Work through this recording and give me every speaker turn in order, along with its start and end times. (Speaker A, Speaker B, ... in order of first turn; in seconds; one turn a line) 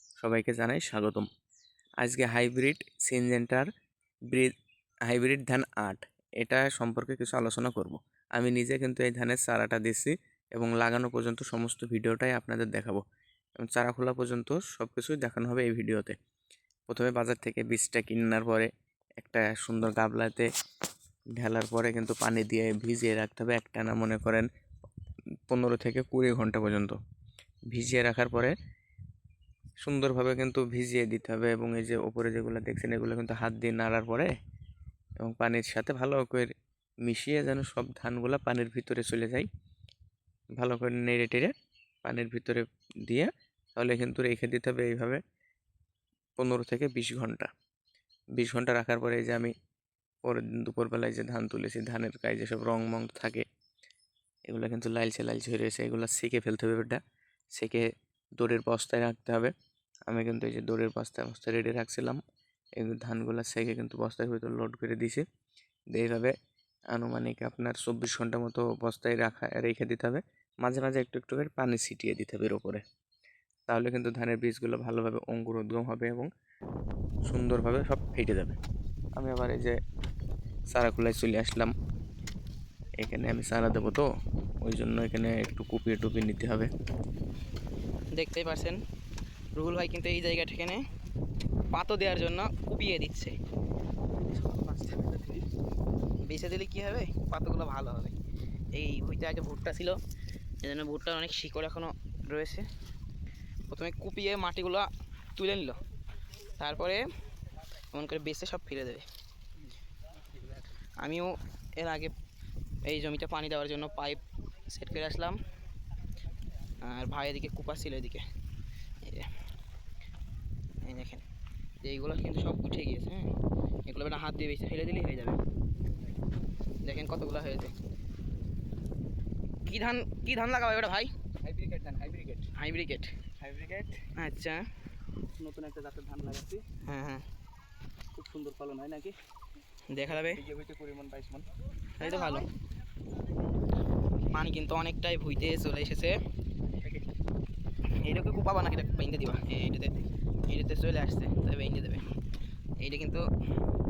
Speaker A: 0.2-1.3
Speaker A: 2.0-3.7
Speaker A: 5.1-13.0
Speaker A: 13.6-16.2
Speaker A: 16.9-20.5
Speaker A: 21.4-24.5
Speaker A: 25.5-27.0
Speaker A: 27.7-28.5
Speaker A: 29.8-34.3
Speaker A: 35.2-36.5
Speaker A: 37.0-39.5
Speaker A: 40.6-41.5
Speaker A: 42.0-45.2
Speaker A: 46.4-47.5
Speaker A: 48.4-49.5
Speaker A: 50.2-53.4
Speaker A: 54.5-57.0
Speaker A: 57.5-59.5
Speaker A: 60.1-62.2
Speaker A: 62.8-65.2
Speaker A: 65.9-66.3
Speaker A: 66.9-72.8
Speaker A: 73.7-76.3
Speaker A: 77.2-78.6
Speaker A: 79.2-79.8
Speaker A: 80.7-81.7
Speaker A: 83.0-84.1
Speaker A: 84.6-86.7
Speaker B: 88.1-88.8
Speaker B: 89.5-90.8
Speaker B: 91.7-93.4
Speaker C: 94.2-95.5
Speaker B: 96.2-98.1
Speaker B: 98.7-100.0
Speaker B: 100.6-102.7
Speaker B: 103.7-105.8
Speaker B: 106.5-107.0
Speaker B: 107.9-109.1
Speaker B: 111.0-112.1
Speaker B: 112.8-115.4
Speaker B: 116.8-118.3
Speaker B: 119.0-119.4
Speaker B: 120.8-121.2
Speaker B: 121.8-123.3
Speaker B: 123.9-125.4
Speaker B: 126.8-127.7
Speaker B: 129.7-131.1
Speaker C: 131.4-132.5
Speaker B: 132.5-133.2
Speaker C: 133.4-134.1
Speaker B: 134.1-134.7
Speaker C: 135.3-136.7
Speaker B: 136.8-137.2
Speaker C: 138.2-139.2
Speaker B: 139.9-140.5
Speaker C: 140.0-141.5
Speaker B: 142.0-142.5
Speaker B: 144.3-146.2
Speaker B: 147.9-152.1
Speaker B: 152.8-153.3